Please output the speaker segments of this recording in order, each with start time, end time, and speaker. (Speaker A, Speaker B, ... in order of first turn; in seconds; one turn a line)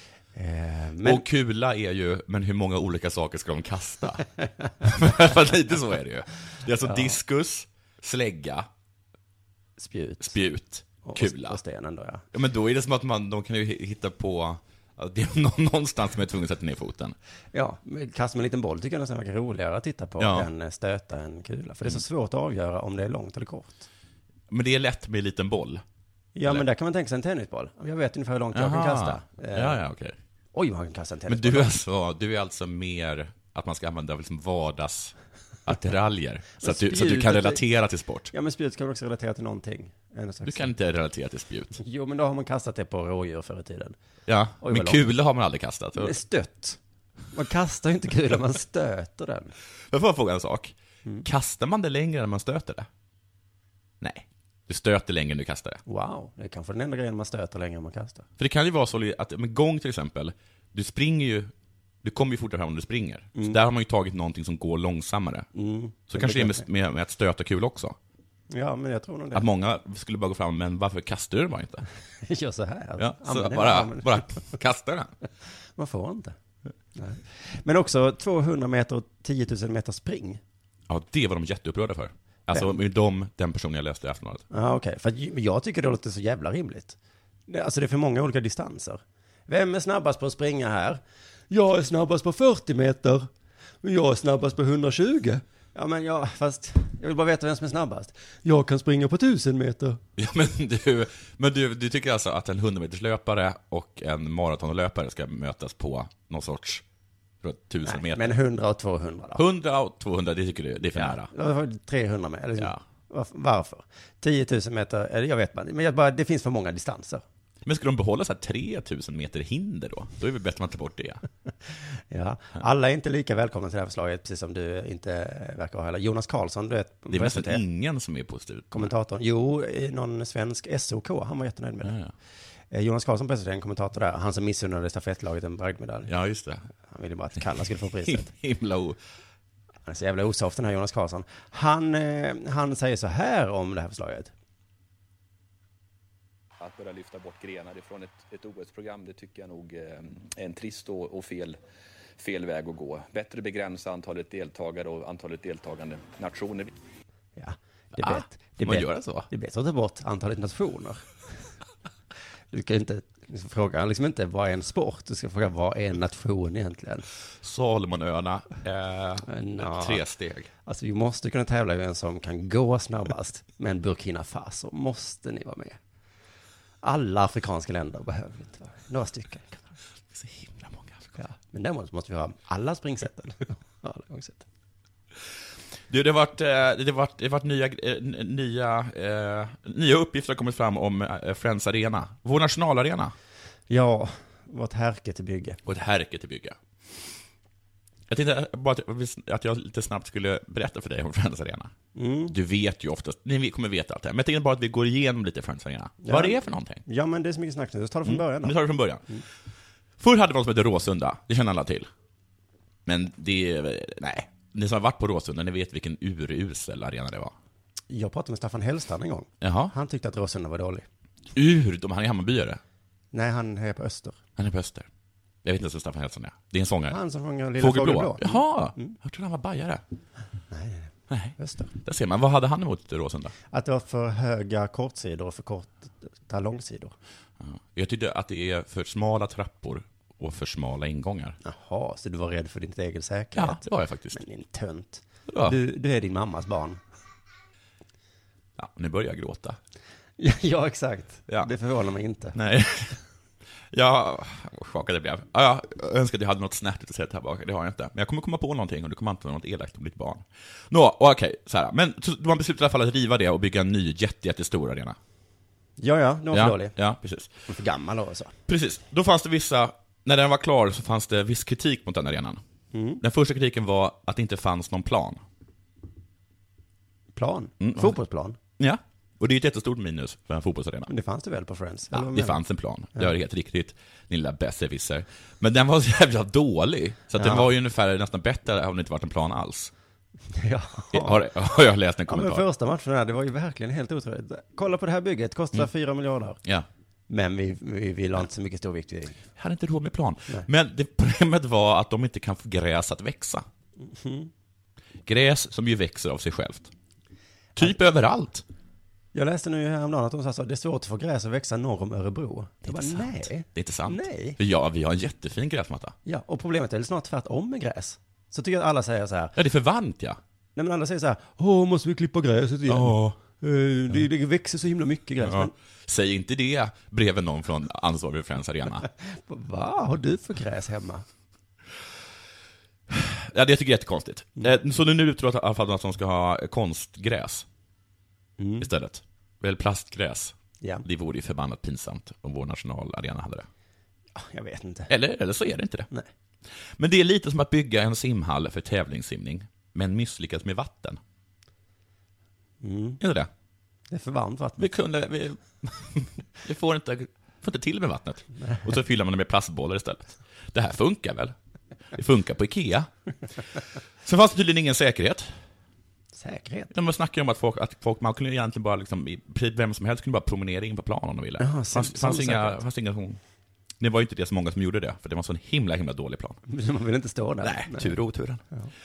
Speaker A: 0.3-1.2
Speaker B: 1.0-4.3
Speaker B: 4.8-8.7
Speaker A: 6.8-7.2
Speaker A: 9.8-10.3
Speaker B: 10.2-11.6
Speaker A: 11.0-12.2
Speaker B: 12.3-17.2
Speaker A: 17.5-23.9
Speaker B: 20.2-20.5
Speaker B: 24.5-25.8
Speaker A: 26.4-29.8
Speaker B: 28.5-30.2
Speaker A: 30.5-31.8
Speaker B: 31.3-35.1
Speaker B: 35.7-38.3
Speaker A: 36.6-37.6
Speaker A: 38.3-40.7
Speaker B: 40.5-41.8
Speaker A: 41.8-44.0
Speaker B: 44.3-46.1
Speaker A: 44.6-45.1
Speaker A: 46.0-46.8
Speaker A: 47.3-49.5
Speaker B: 49.9-52.9
Speaker B: 54.0-55.8
Speaker A: 55.9-58.3
Speaker B: 58.4-61.5
Speaker B: 62.0-65.5
Speaker A: 65.5-66.7
Speaker B: 66.1-68.0
Speaker A: 68.5-69.5
Speaker B: 69.3-71.8
Speaker A: 72.2-74.5
Speaker B: 73.0-75.1
Speaker A: 75.8-76.3
Speaker A: 77.0-80.4
Speaker B: 80.9-84.5
Speaker A: 84.5-87.0
Speaker A: 87.5-93.3
Speaker A: 93.8-100.0
Speaker B: 100.2-106.8
Speaker B: 107.4-108.4
Speaker A: 107.9-109.4
Speaker B: 109.4-111.3
Speaker A: 111.0-117.2
Speaker B: 117.6-121.2
Speaker A: 122.1-127.6
Speaker B: 127.1-128.9
Speaker A: 128.7-132.0
Speaker B: 131.8-132.1
Speaker A: 132.7-136.1
Speaker B: 136.1-136.7
Speaker A: 136.9-138.3
Speaker B: 138.0-139.0
Speaker A: 139.9-144.3
Speaker C: 146.6-151.6
Speaker C: 152.2-156.7
Speaker A: 157.4-161.1
Speaker B: 158.0-159.3
Speaker A: 162.5-167.1
Speaker B: 167.4-170.5
Speaker A: 169.3-170.0
Speaker A: 170.7-175.8
Speaker A: 176.8-179.7
Speaker B: 180.1-181.2
Speaker A: 181.2-184.4
Speaker B: 185.9-193.1
Speaker A: 193.7-195.6
Speaker B: 195.7-197.1
Speaker B: 198.1-201.7
Speaker A: 201.9-202.3
Speaker B: 202.3-206.8
Speaker A: 206.0-208.6
Speaker B: 208.1-209.1
Speaker B: 210.0-211.9
Speaker B: 212.9-217.3
Speaker A: 217.9-220.9
Speaker B: 219.4-219.7
Speaker B: 221.3-222.6
Speaker A: 223.1-224.2
Speaker B: 224.4-224.9
Speaker B: 225.4-227.0
Speaker A: 226.9-229.0
Speaker B: 227.6-229.8
Speaker A: 230.5-231.7
Speaker B: 231.1-233.3
Speaker A: 233.5-236.9
Speaker B: 237.4-241.4
Speaker A: 241.4-243.6
Speaker B: 243.3-244.2
Speaker A: 244.1-246.8
Speaker B: 245.3-245.6
Speaker B: 248.6-249.6
Speaker A: 250.2-252.4
Speaker B: 252.3-253.0
Speaker B: 253.7-265.0
Speaker A: 265.8-266.7
Speaker B: 266.3-267.3
Speaker A: 267.5-268.4
Speaker B: 268.5-272.4
Speaker A: 272.7-273.0
Speaker B: 273.0-275.2
Speaker A: 277.2-278.4
Speaker B: 277.6-278.0
Speaker B: 278.6-280.9
Speaker A: 280.9-282.4
Speaker B: 281.9-289.7
Speaker A: 287.2-287.5
Speaker A: 290.3-291.3
Speaker B: 290.9-292.4
Speaker A: 292.1-296.4
Speaker A: 297.1-299.2
Speaker B: 299.4-303.4
Speaker A: 303.8-304.3
Speaker B: 305.1-306.7
Speaker B: 307.6-308.4
Speaker A: 309.1-314.4
Speaker B: 312.6-316.0
Speaker A: 316.1-319.4
Speaker B: 319.4-320.2
Speaker A: 320.6-325.5
Speaker B: 322.7-323.2
Speaker B: 325.2-328.9
Speaker A: 328.8-331.1
Speaker B: 332.9-337.5
Speaker A: 338.4-338.7
Speaker B: 338.6-343.5
Speaker A: 344.1-344.9
Speaker B: 344.9-345.9
Speaker B: 346.8-351.0
Speaker A: 352.6-353.0
Speaker B: 353.0-353.3
Speaker A: 353.9-354.6
Speaker B: 354.6-361.4
Speaker A: 358.4-358.6
Speaker B: 361.9-362.9
Speaker B: 364.0-365.3
Speaker A: 366.1-366.7
Speaker B: 366.7-373.2
Speaker A: 371.4-372.6
Speaker B: 373.8-376.4
Speaker A: 376.5-378.0
Speaker B: 377.4-378.4